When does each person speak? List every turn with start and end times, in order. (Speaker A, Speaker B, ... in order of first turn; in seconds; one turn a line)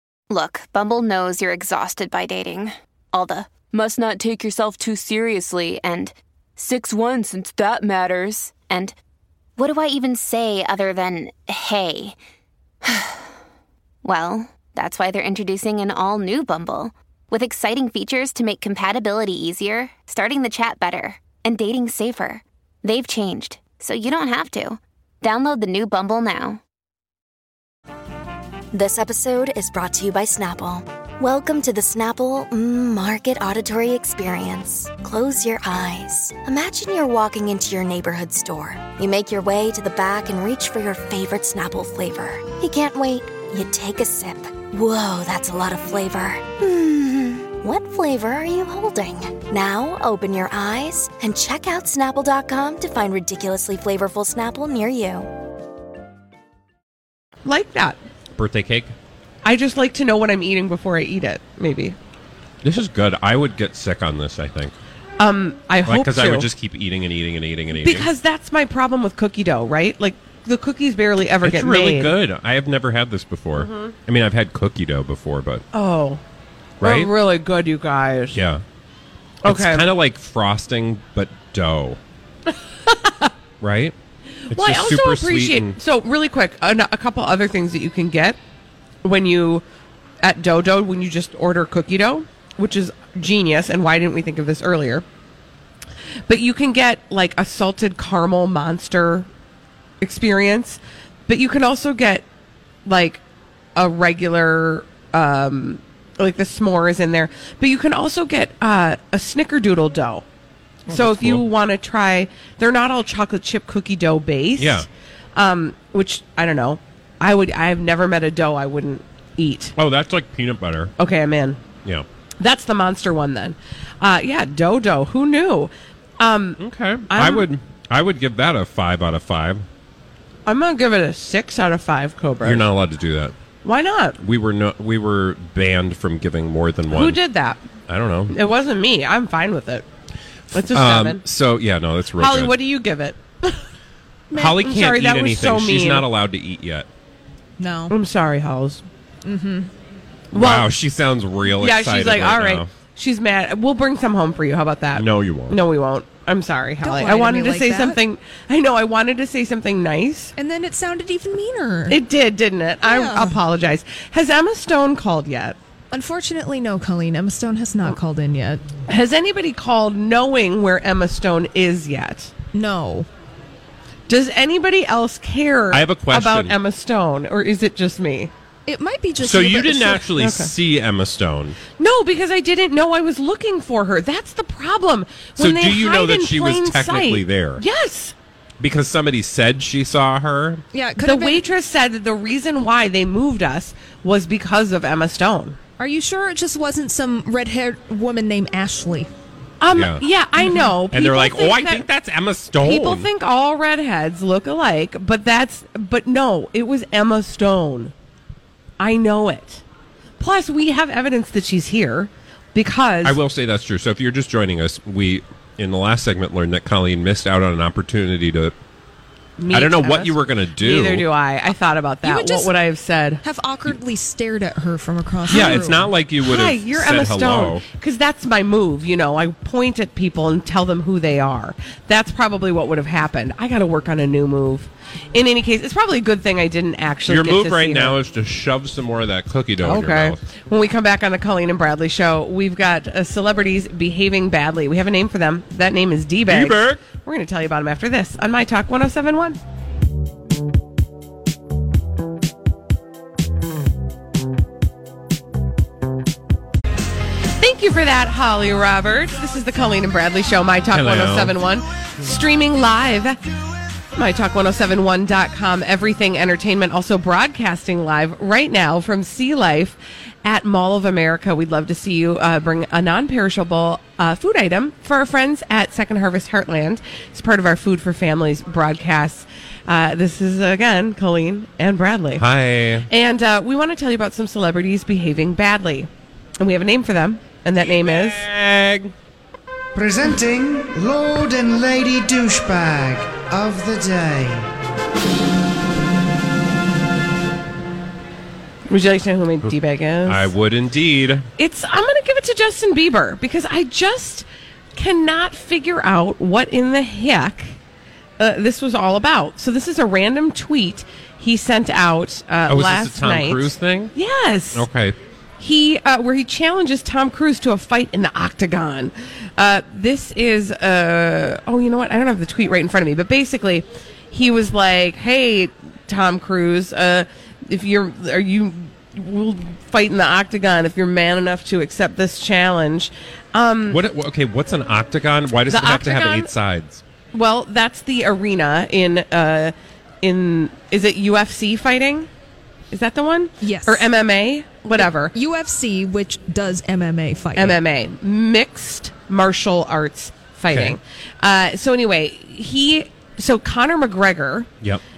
Speaker A: 0.3-8.9
Speaker A: 9.6-12.2
Speaker A: 12.8-13.3
Speaker A: 14.0-26.6
Speaker B: 28.7-55.3
Speaker C: 57.4-58.0
Speaker D: 58.4-58.9
Speaker C: 59.4-62.0
Speaker D: 62.6-64.7
Speaker C: 65.2-66.5
Speaker D: 65.8-68.1
Speaker C: 67.7-72.1
Speaker D: 71.4-75.6
Speaker C: 73.5-73.9
Speaker C: 75.7-76.2
Speaker D: 76.8-77.1
Speaker C: 76.8-78.4
Speaker D: 78.3-78.6
Speaker C: 79.4-79.9
Speaker D: 79.4-82.0
Speaker C: 82.8-83.3
Speaker D: 83.6-83.9
Speaker C: 84.5-88.4
Speaker D: 84.5-85.8
Speaker C: 89.0-89.6
Speaker C: 90.2-95.0
Speaker C: 96.3-99.3
Speaker C: 100.0-102.2
Speaker C: 102.8-103.2
Speaker C: 103.8-110.2
Speaker D: 110.8-111.5
Speaker C: 110.9-119.7
Speaker D: 114.6-114.9
Speaker D: 119.8-120.9
Speaker C: 121.0-121.6
Speaker C: 122.4-127.5
Speaker D: 126.6-129.6
Speaker C: 130.4-132.7
Speaker D: 132.4-133.3
Speaker C: 133.6-134.2
Speaker D: 134.2-137.2
Speaker C: 136.9-137.6
Speaker D: 137.9-138.4
Speaker C: 138.3-139.8
Speaker C: 140.5-141.2
Speaker D: 140.5-142.6
Speaker C: 142.2-143.6
Speaker D: 144.3-146.9
Speaker C: 144.4-146.1
Speaker E: 147.6-147.9
Speaker C: 147.9-148.8
Speaker E: 149.2-149.7
Speaker C: 150.3-150.7
Speaker D: 150.3-152.7
Speaker C: 151.6-160.3
Speaker D: 154.9-155.6
Speaker E: 156.8-158.0
Speaker E: 160.4-162.0
Speaker C: 161.9-165.6
Speaker E: 162.8-163.4
Speaker E: 165.9-168.6
Speaker C: 168.9-172.3
Speaker E: 172.5-173.1
Speaker C: 174.1-178.3
Speaker D: 175.7-176.6
Speaker E: 178.7-180.1
Speaker D: 179.2-181.6
Speaker C: 180.2-180.5
Speaker C: 181.8-188.1
Speaker D: 185.4-187.6
Speaker D: 188.6-190.6
Speaker E: 190.7-191.4
Speaker C: 191.0-195.6
Speaker E: 195.8-199.1
Speaker C: 199.6-201.8
Speaker D: 199.7-200.0
Speaker D: 200.9-203.1
Speaker C: 202.6-207.9
Speaker C: 208.8-209.6
Speaker C: 210.2-213.2
Speaker D: 213.0-218.5
Speaker C: 219.4-223.2
Speaker D: 219.5-221.1
Speaker E: 222.0-222.5
Speaker E: 223.2-225.9
Speaker D: 225.3-227.6
Speaker C: 225.3-237.9
Speaker D: 237.1-240.2
Speaker C: 239.6-249.4
Speaker D: 246.3-246.8
Speaker C: 257.4-263.2
Speaker D: 260.7-261.4
Speaker C: 263.9-282.2
Speaker D: 282.2-282.9
Speaker C: 282.9-285.9
Speaker C: 286.4-288.2
Speaker D: 287.6-288.9
Speaker F: 289.7-294.4
Speaker C: 298.7-300.3
Speaker D: 300.1-301.3
Speaker C: 301.4-307.6
Speaker C: 308.2-314.6
Speaker D: 312.5-313.9
Speaker D: 314.5-315.0
Speaker C: 315.4-333.8
Speaker D: 333.7-336.8
Speaker C: 335.5-336.3
Speaker C: 337.1-342.1
Speaker C: 342.7-345.1
Speaker E: 343.4-343.9
Speaker E: 344.8-347.6
Speaker C: 347.4-354.5
Speaker D: 350.5-350.8